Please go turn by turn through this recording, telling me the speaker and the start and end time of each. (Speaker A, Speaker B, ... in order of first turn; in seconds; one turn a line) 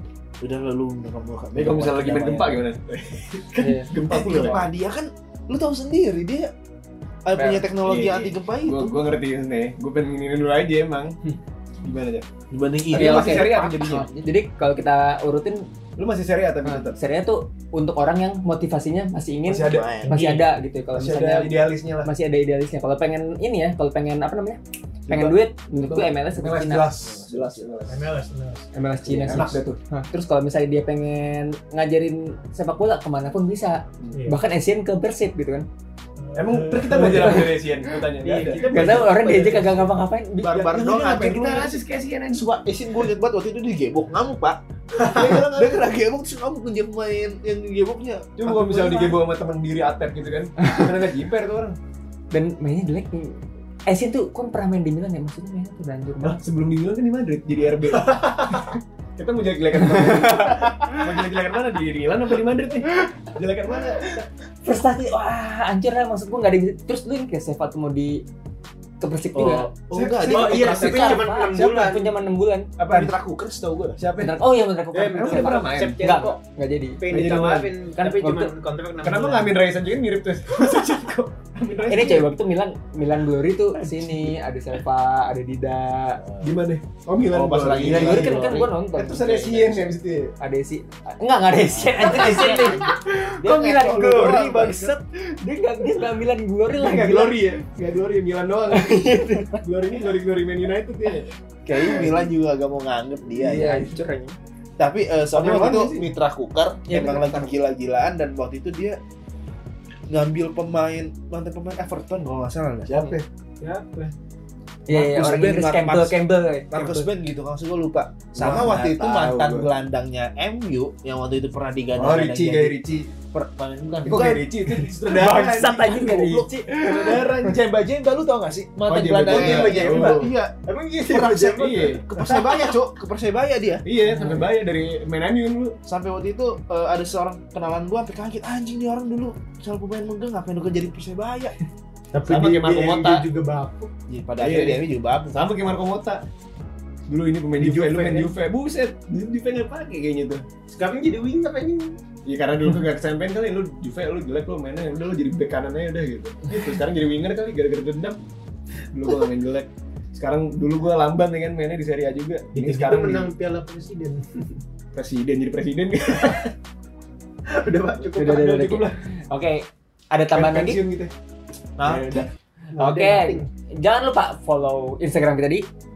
Speaker A: 0.4-2.7
Speaker B: 1.5-4.7
Speaker C: 3.6-3.9
Speaker A: 4.0-6.5
Speaker A: 7.2-8.9
Speaker C: 7.3-7.7
Speaker B: 7.8-11.2
Speaker B: 11.8-12.2
Speaker A: 12.5-14.3
Speaker B: 12.9-14.1
Speaker C: 12.9-15.6
Speaker B: 16.0-17.0
Speaker C: 16.6-26.9
Speaker B: 19.4-20.0
Speaker A: 19.6-20.2
Speaker B: 20.9-22.1
Speaker B: 25.1-28.0
Speaker A: 27.0-27.7
Speaker D: 27.9-28.7
Speaker C: 28.7-35.7
Speaker B: 29.0-29.8
Speaker D: 34.1-34.4
Speaker D: 36.2-37.5
Speaker B: 36.3-39.6
Speaker C: 36.9-37.5
Speaker D: 38.2-39.8
Speaker C: 38.6-40.5
Speaker A: 40.4-41.8
Speaker B: 40.4-42.6
Speaker A: 42.3-49.2
Speaker B: 44.9-45.8
Speaker B: 48.4-51.8
Speaker C: 52.3-56.4
Speaker B: 56.2-64.2
Speaker C: 60.5-60.7
Speaker C: 64.6-68.2
Speaker C: 69.0-69.7
Speaker A: 69.3-71.3
Speaker B: 69.9-71.0
Speaker D: 70.2-72.1
Speaker C: 70.5-72.7
Speaker B: 72.8-73.2
Speaker A: 72.9-74.0
Speaker B: 74.0-74.3
Speaker C: 74.2-77.0
Speaker D: 74.9-76.4
Speaker B: 75.1-76.0
Speaker D: 77.0-79.6
Speaker B: 77.1-77.7
Speaker C: 78.0-78.5
Speaker B: 79.0-82.3
Speaker C: 81.9-86.2
Speaker A: 86.2-86.6
Speaker B: 86.4-90.3
Speaker A: 87.3-88.7
Speaker C: 87.8-97.4
Speaker A: 91.7-95.0
Speaker B: 92.2-92.5
Speaker B: 96.7-101.3
Speaker C: 98.7-99.6
Speaker A: 101.7-103.9
Speaker C: 101.7-102.3
Speaker C: 103.4-104.3
Speaker B: 103.5-103.8
Speaker A: 104.8-109.0
Speaker B: 105.3-106.1
Speaker C: 106.9-107.5
Speaker A: 110.1-112.9
Speaker B: 112.8-113.2
Speaker C: 112.9-113.2
Speaker D: 113.6-114.1
Speaker C: 114.9-117.1
Speaker A: 114.9-116.2
Speaker A: 116.7-124.5
Speaker B: 118.3-119.7
Speaker B: 121.9-123.1
Speaker B: 124.0-127.6
Speaker C: 125.0-126.7
Speaker A: 126.7-133.8
Speaker B: 128.9-130.3
Speaker D: 129.3-132.7
Speaker B: 131.5-132.0
Speaker B: 133.8-135.8
Speaker C: 134.0-134.5
Speaker A: 135.8-141.5
Speaker D: 142.1-143.9
Speaker B: 142.3-143.2
Speaker A: 144.1-145.4
Speaker B: 144.4-146.2
Speaker B: 147.1-150.4
Speaker D: 147.6-148.3
Speaker D: 150.7-152.0
Speaker B: 152.2-158.2
Speaker B: 158.9-163.3
Speaker D: 162.5-164.6
Speaker B: 164.9-166.5
Speaker D: 166.1-166.4
Speaker D: 167.5-168.5
Speaker C: 168.2-170.8
Speaker B: 168.2-169.0
Speaker B: 170.3-171.1
Speaker A: 171.8-172.3
Speaker B: 171.8-172.3
Speaker D: 172.7-173.5
Speaker C: 172.8-175.7